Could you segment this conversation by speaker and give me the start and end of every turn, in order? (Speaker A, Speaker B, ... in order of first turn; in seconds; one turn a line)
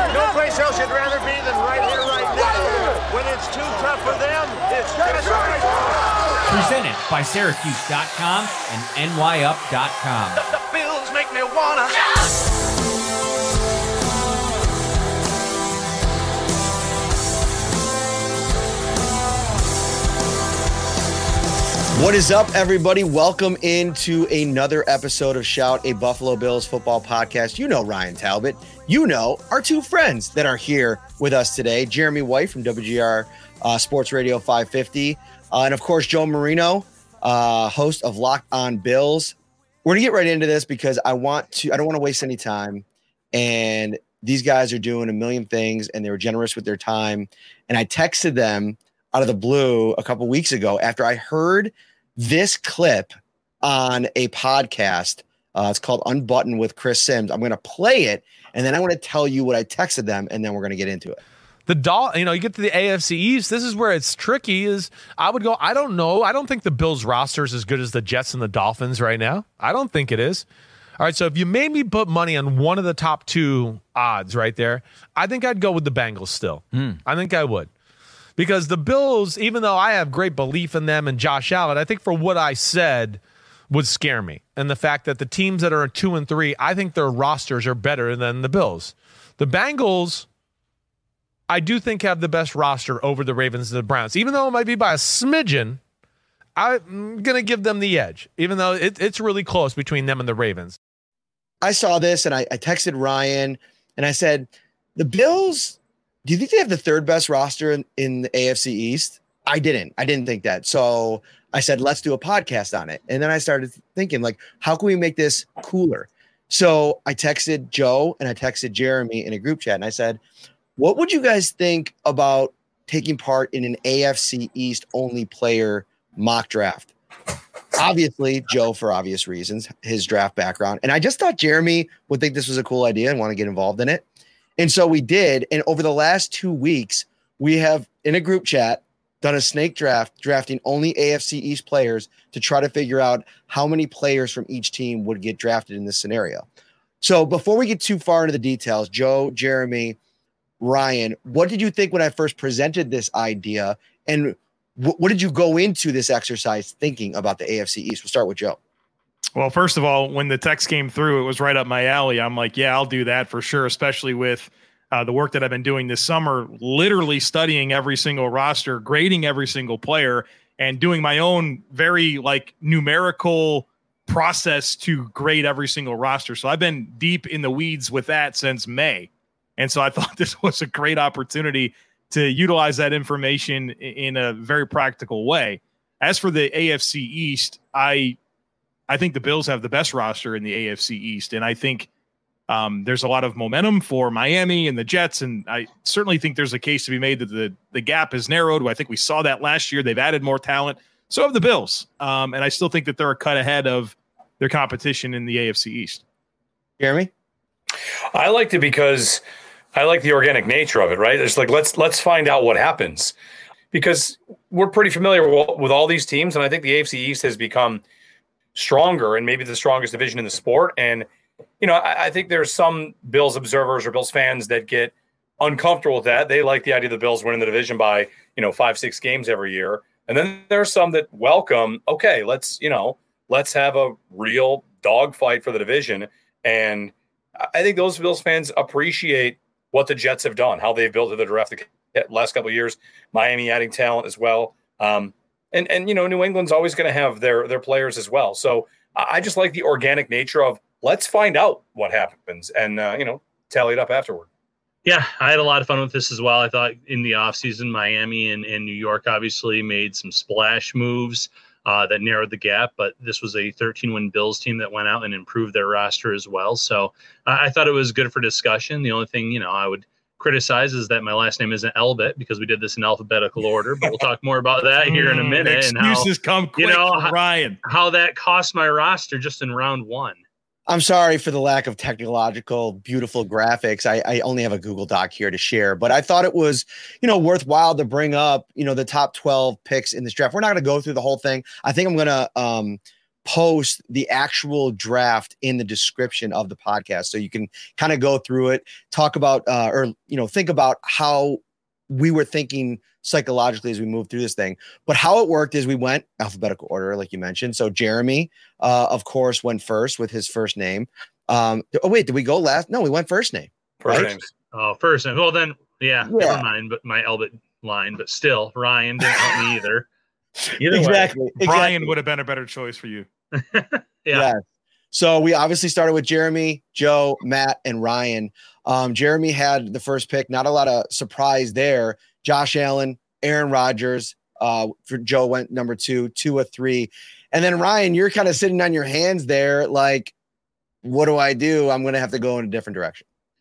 Speaker A: 0.1-5.8
Speaker B: 6.5-10.4
Speaker A: 10.4-12.1
Speaker C: 21.9-61.2
Speaker D: 61.6-70.5
Speaker D: 71.0-77.7
Speaker D: 78.4-90.3
Speaker D: 91.5-95.8
Speaker D: 96.6-100.8
Speaker C: 101.6-120.2
Speaker C: 120.8-126.9
Speaker C: 127.7-134.0
Speaker C: 134.6-146.4
Speaker C: 147.0-150.0
Speaker C: 150.6-158.6
Speaker E: 159.3-188.2
Speaker E: 188.9-191.9
Speaker E: 192.5-206.0
Speaker C: 206.8-207.1
Speaker F: 208.1-209.2
Speaker F: 209.7-213.1
Speaker F: 213.7-217.8
Speaker F: 218.5-221.1
Speaker F: 221.6-254.3
Speaker G: 254.8-280.2
Speaker E: 274.8-277.6
Speaker C: 280.7-314.1
Speaker F: 313.8-314.2
Speaker G: 313.9-319.9
Speaker C: 316.0-316.4
Speaker C: 319.1-319.3
Speaker C: 320.5-321.9
Speaker G: 320.6-321.1
Speaker E: 321.4-323.1
Speaker G: 323.4-324.3
Speaker C: 324.1-324.4
Speaker C: 324.9-340.1
Speaker C: 340.8-343.1